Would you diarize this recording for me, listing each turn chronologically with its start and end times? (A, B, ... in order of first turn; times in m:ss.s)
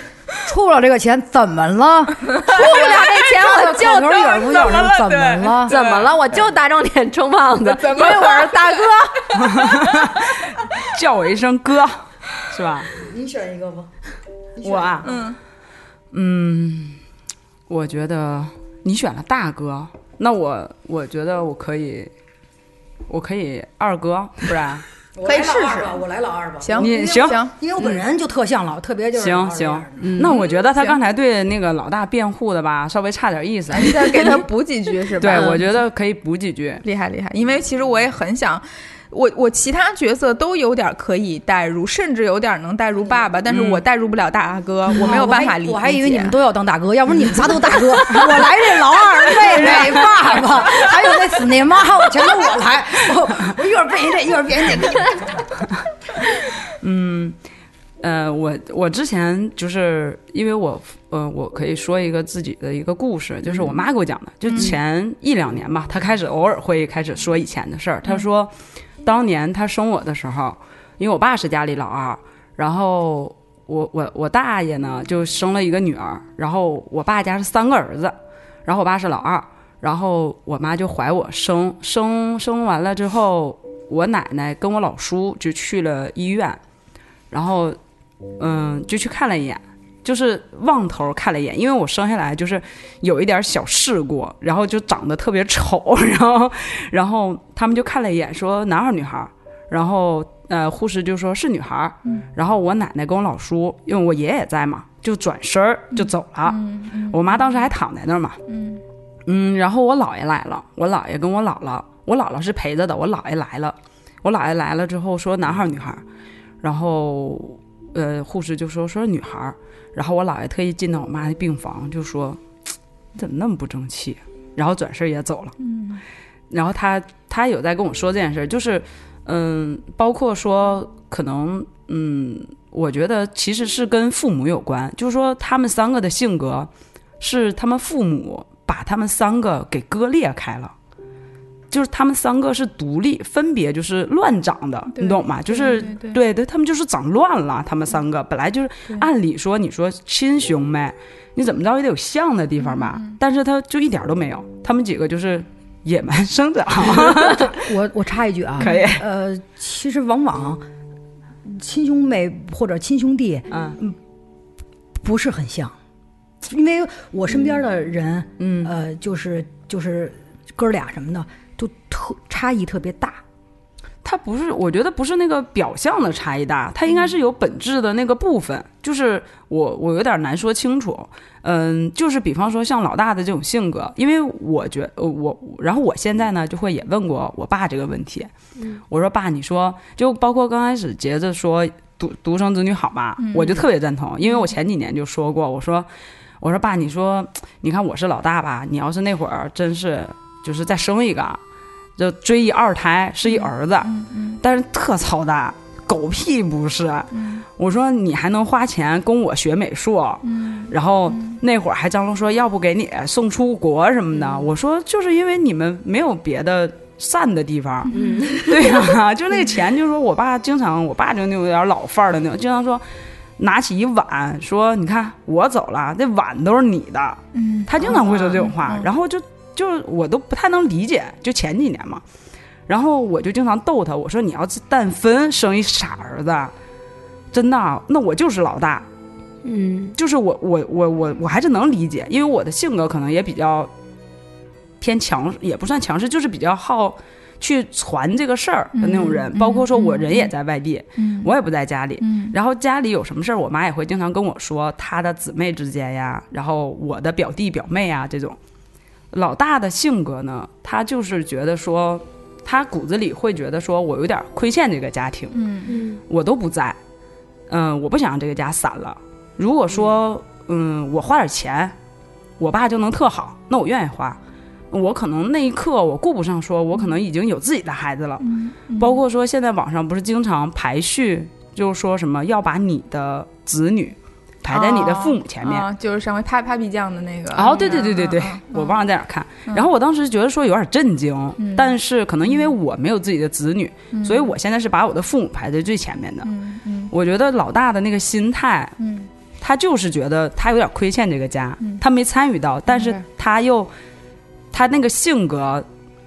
0:00.4-0:05.7 A
0:02.4-0:03.2 B
0:02.4-0:04.7 C
0:04.1-0:06.1 B
0:05.6-0:09.4 C
0:07.6-0:10.2 B
0:09.4-0:12.9 D
0:12.9-0:13.9 A
0:14.6-0:15.2 A
0:14.6-0:15.1 D
0:15.0-0:15.4 B
0:16.1-0:17.0 D
0:17.7-0:22.1 D
0:23.1-0:24.8 D
0:25.2-0:30.1 A
0:25.2-0:26.0 B
0:26.6-0:27.5 B
0:26.8-0:27.4 D
0:29.1-0:34.4 D
0:30.0-0:30.4 C
0:30.2-0:31.0 B
0:33.7-0:35.7 B
0:35.2-0:36.8 D
0:36.8-0:46.3 B
0:43.5-0:43.8 D
0:44.9-0:55.5 A
0:56.8-0:57.4 D
0:58.0-1:26.6 D
1:04.5-1:04.8 B
1:27.3-1:27.8 D
1:28.4-1:48.4 D
1:45.9-1:47.7 B
1:48.5-1:48.8 B
1:49.2-1:56.0 D
1:56.6-2:02.4 D
2:03.1-2:05.5 D
2:05.6-2:06.0 B
2:06.5-2:16.7 D
2:17.2-2:20.7 D
2:21.7-2:37.6 D
2:24.9-2:26.2 B
2:32.6-2:33.1 B
2:36.9-2:40.6 A
2:38.6-2:39.0 D
2:38.6-2:38.9 B
2:41.4-2:44.0 A
2:43.5-2:43.8 D
2:45.0-2:45.7 A
2:46.4-2:53.2 A
2:48.4-2:48.7 D
2:54.0-3:08.3 D
3:08.9-3:15.9 D
3:13.2-3:13.6 B
3:16.4-3:21.4 D
3:22.0-3:37.9 D
3:23.2-3:24.4 B
3:27.1-3:27.4 B
3:30.2-3:31.4 B
3:37.8-3:38.3 B
3:37.9-3:38.8 C
3:38.4-3:42.8 D
3:43.4-3:52.0 D
3:47.3-3:48.9 B
3:52.7-3:56.5 D
3:57.3-3:58.9 D
3:59.4-3:59.9 C
4:00.0-4:03.7 D
4:04.8-4:18.4 D
4:08.8-4:10.3 B
4:11.0-4:11.3 B
4:12.0-4:12.3 B
4:19.1-4:25.4 D
4:25.3-4:25.8 B
4:25.7-4:26.0 C
4:26.1-4:26.8 D
4:27.5-4:31.7 D
4:32.4-4:34.2 D
4:34.7-4:45.7 D
4:38.2-4:39.0 B
4:44.5-4:48.8 B
4:47.3-4:56.3 D
4:51.4-4:51.8 B
4:53.9-4:54.3 B
4:56.2-4:56.9 B
4:56.9-4:58.8 D
4:58.8-4:59.1 B
4:59.4-5:03.7 D
5:02.7-5:03.0 B
5:04.5-5:05.6 D